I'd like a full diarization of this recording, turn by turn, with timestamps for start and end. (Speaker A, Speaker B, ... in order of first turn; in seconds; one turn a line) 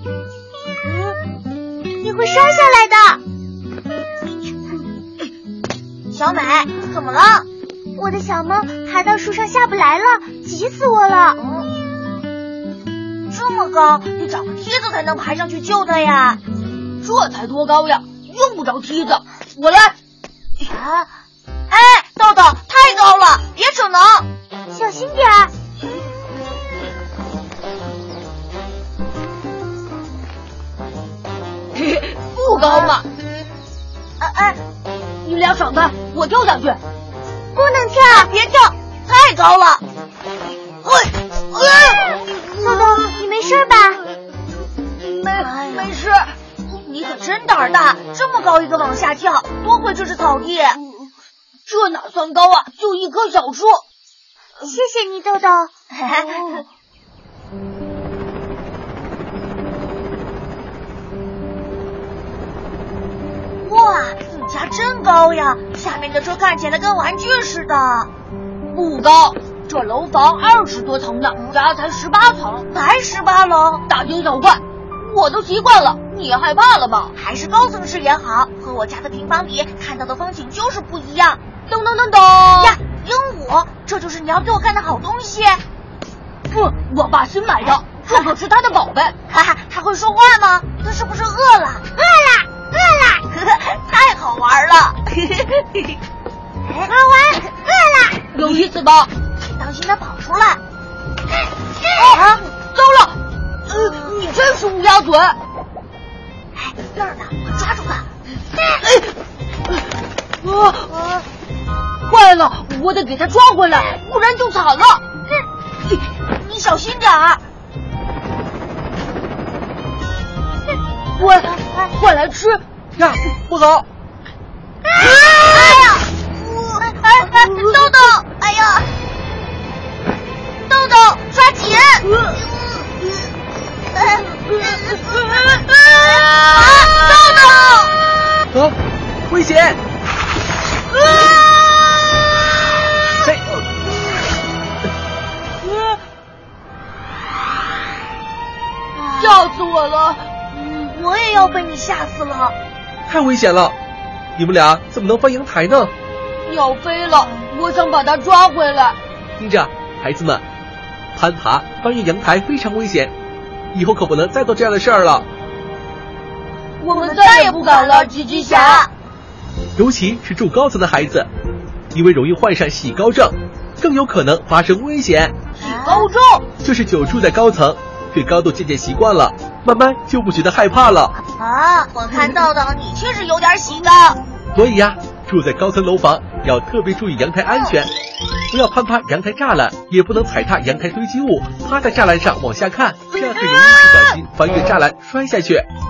Speaker A: 2.0-3.2
Speaker B: 6.1-7.5
Speaker A: 8.0-11.4
Speaker B: 11.4-11.7
Speaker B: 13.3-16.4
Speaker C: 17.0-19.9
Speaker B: 20.6-21.1
Speaker B: 21.7-24.3
Speaker A: 24.7-25.5
Speaker C: 31.7-33.1
Speaker B: 32.5-33.0
Speaker B: 34.2-34.6
Speaker C: 35.2-36.8
Speaker A: 37.5-38.3
Speaker B: 38.0-39.8
Speaker B: 41.5-42.1
Speaker C: 41.7-42.2
Speaker A: 42.6-44.0
Speaker C: 45.0-46.3
Speaker B: 45.4-45.9
Speaker B: 46.7-50.8
Speaker C: 51.7-53.8
Speaker A: 54.6-55.7
Speaker B: 55.9-56.6
Speaker C: 56.2-56.6
Speaker B: 63.6-68.1
Speaker C: 68.7-72.7
Speaker B: 72.7-73.8
Speaker C: 73.9-77.1
Speaker B: 77.2-81.4
Speaker C: 81.7-82.8
Speaker B: 82.6-85.6
Speaker C: 86.5-89.2
Speaker B: 89.3-91.9
Speaker A: 92.0-93.2
Speaker B: 93.2-95.6
Speaker B: 96.7-96.9
Speaker A: 96.9-98.3
Speaker C: 98.3-99.1
Speaker B: 98.4-98.7
Speaker B: 99.5-100.6
Speaker C: 102.0-105.4
Speaker B: 102.1-102.4
Speaker B: 106.5-108.1
Speaker C: 108.8-109.1
Speaker C: 110.4-111.2
Speaker C: 112.1-115.0
Speaker B: 116.3-117.4
Speaker C: 121.2-122.6
Speaker D: 123.0-123.9
Speaker B: 125.4-128.9
Speaker B: 130.7-132.9
Speaker B: 134.0-137.9
Speaker D: 138.5-138.8
Speaker D: 139.3-139.8
Speaker B: 148.9-149.4
Speaker C: 149.2-150.3
Speaker B: 150.5-152.6
Speaker D: 153.1-153.8
Speaker D: 154.4-155.9
Speaker C: 156.5-159.0
Speaker B: 157.1-157.4
Speaker D: 159.4-160.4
Speaker D: 161.2-163.1
Speaker D: 163.7-165.3
Speaker C: 166.8-168.9
Speaker B: 166.9-168.9
Speaker D: 169.8-171.3
Speaker D: 171.9-175.3
Speaker C: 175.6-176.4
Speaker B: 175.6-176.1
Speaker D: 176.6-181.2
Speaker B: 181.3-184.2
Speaker D: 184.6-187.9
Speaker B: 187.5-187.8
Speaker D: 188.5-195.7